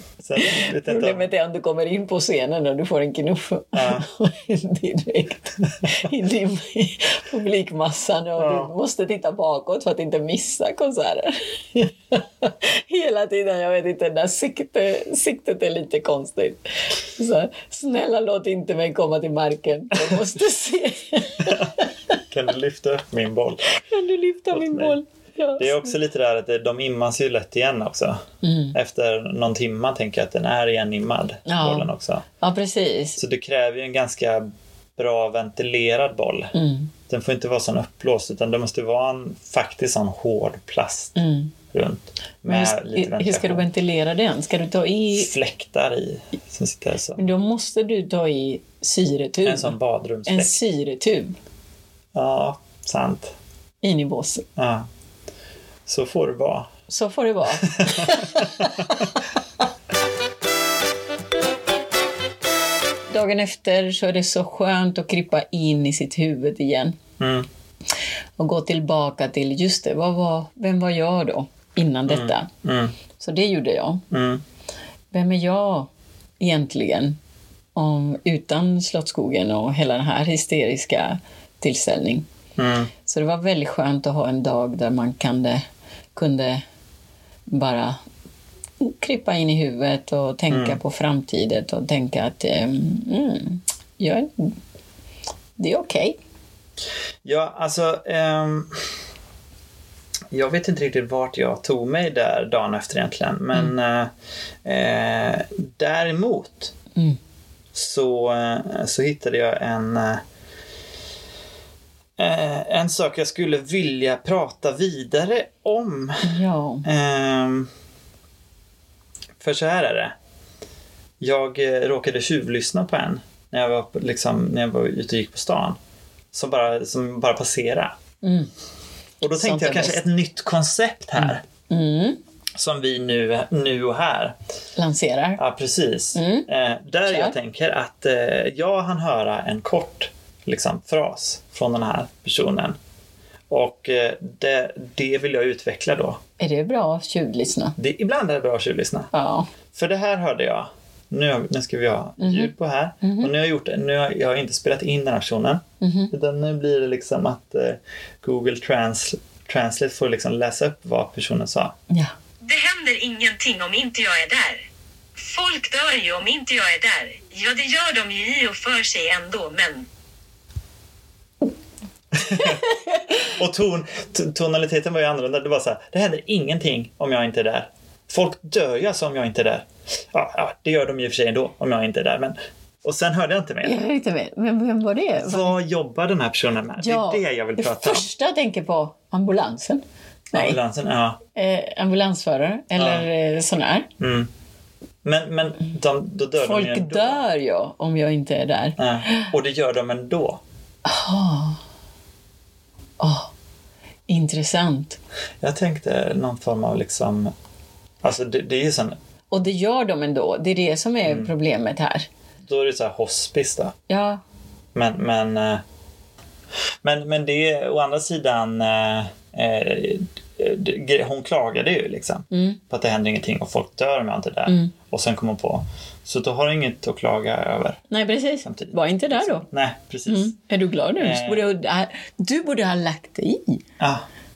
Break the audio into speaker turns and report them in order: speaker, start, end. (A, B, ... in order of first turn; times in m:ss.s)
0:00.2-0:01.3 A
0:00.4-0:21.9 B
0:03.7-0:04.0 A
0:08.4-0:08.7 A
0:21.4-0:21.7 A
0:22.3-0:23.7 A
0:23.9-0:25.9 B
0:24.5-0:25.0 A
0:25.6-0:32.2 A
0:28.4-0:28.7 B
0:31.4-0:31.9 B
0:32.4-0:33.2 B
0:33.2-0:36.5 A
0:36.5-0:36.9 B
0:37.1-0:41.2 A
0:41.2-0:41.5 B
0:41.7-0:43.6 A
0:42.4-0:45.3 B
0:45.1-0:47.3 A
0:47.2-0:51.4 B
0:49.4-0:50.6 A
0:52.1-0:53.3 A
0:53.8-0:54.4 B
0:54.6-0:54.9 A
0:55.8-0:56.7 A
0:56.9-0:59.0 B
0:57.7-0:59.0 A
1:03.1-1:07.0 B
1:07.2-1:07.5 A
1:08.4-1:12.5 B
1:12.1-1:12.9 A
1:13.2-1:14.0 B
1:14.1-1:14.4 A
1:15.1-1:17.2 B
1:17.7-1:22.3 B
1:22.6-1:22.9 A
1:23.0-1:25.6 B
1:26.1-1:26.6 B
1:27.5-1:28.0 B
1:28.8-1:34.6 B
1:30.5-1:30.8 A
1:35.6-1:36.2 B
1:37.2-1:38.8 A
1:40.3-1:44.1 A
1:44.6-1:46.7 A
1:47.7-1:50.2 A
1:52.2-1:57.7 A
1:56.2-1:56.8 B
1:59.4-2:00.1 A
2:01.2-2:05.8 A
2:06.3-2:08.0 A
2:08.2-2:08.5 B
2:09.2-2:11.4 A
2:09.3-2:10.0 B
2:11.2-2:12.2 B
2:12.6-2:14.3 A
2:14.8-2:15.4 B
2:15.4-2:22.8 A
2:16.1-2:16.5 B
2:17.0-2:17.4 B
2:23.5-2:26.2 A
2:26.4-2:27.8 B
2:27.8-2:29.1 A
2:29.1-2:29.5 B
2:29.7-2:41.8 A
2:32.2-2:33.3 B
2:35.8-2:36.1 B
2:42.4-2:44.6 C
2:45.2-2:49.8 C
2:52.1-2:52.7 A
2:53.2-3:03.8 A
3:03.6-3:05.6 B
3:05.2-3:08.1 A
3:06.8-3:10.6 B
3:10.3-3:11.2 A
3:11.3-3:13.9 B
3:12.8-3:13.1 A
3:14.0-3:14.3 A
3:15.0-3:17.2 A
3:16.4-3:19.3 B
3:18.8-3:20.4 A
3:20.8-3:21.6 B
3:23.0-3:23.3 B
3:24.1-3:25.0 B
3:25.4-3:27.3 A
3:28.0-3:29.0 A
3:29.3-3:32.1 B
3:31.0-3:31.3 A
3:32.5-3:33.8 A
3:33.9-3:34.2 B
3:34.7-3:35.6 A
3:36.8-3:47.8 A
3:42.3-3:42.6 B
3:44.5-3:44.7 B
3:47.9-3:49.4 B
3:48.4-3:50.3 A
3:50.0-3:53.6 B
3:51.0-3:51.4 A
3:53.8-3:54.0 A